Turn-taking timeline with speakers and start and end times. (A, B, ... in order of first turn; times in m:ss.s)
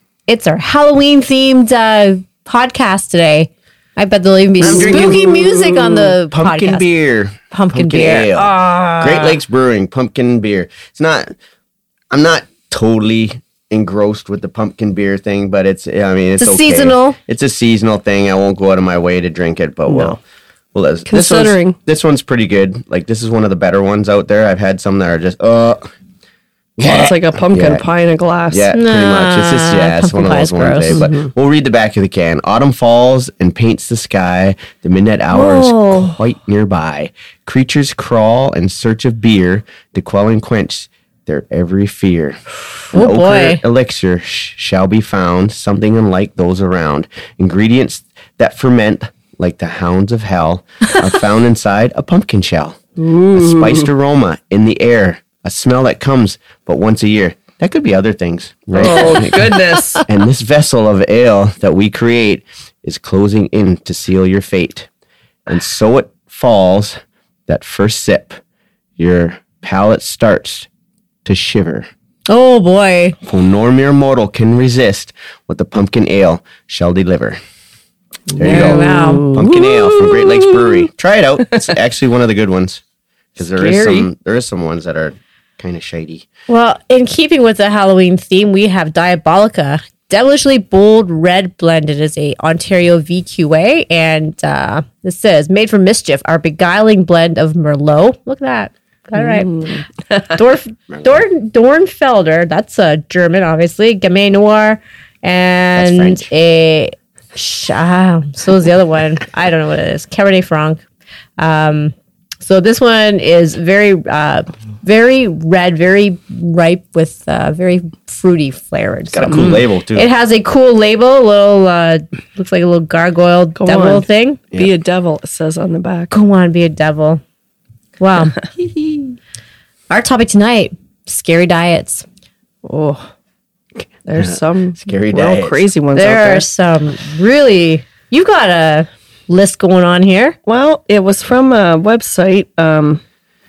0:00.3-0:06.9 A
0:04.6-0:11.3 B
0:04.6-0:05.1 C
0:07.5-0:09.4 A
0:12.1-0:20.2 B
0:16.4-0:17.2 A
0:19.9-0:20.2 C
0:20.7-0:25.9 B
0:21.0-0:21.8 C
0:26.8-0:27.8 B
0:26.8-0:28.7 C
0:28.5-1:04.9 B
0:28.7-0:31.3 A
0:35.3-0:36.2 A
0:42.9-0:43.6 A
0:53.0-0:53.9 C
0:58.7-1:00.0 C
0:58.9-1:00.0 A
1:05.5-1:08.4 B
1:09.0-1:10.7 B
1:11.2-1:11.9 B
1:12.3-1:13.2 A
1:13.2-1:17.4 B
1:18.3-1:20.9 C
1:18.3-1:22.8 B
1:18.4-1:19.2 A
1:23.4-1:26.3 B
1:23.4-1:24.1 C
1:26.5-1:50.8 A
1:39.2-1:40.4 C
1:40.9-1:41.2 B
1:45.7-1:46.3 B
1:51.4-2:04.4 A
1:59.1-2:00.1 B
2:03.6-2:06.1 C
2:06.1-2:07.2 A
2:08.0-2:08.4 A
2:08.6-2:09.2 B
2:09.9-2:12.0 A
2:12.6-2:13.1 C
2:13.8-2:15.7 B
2:14.0-2:16.4 C
2:15.9-2:20.4 A
2:20.4-2:23.0 C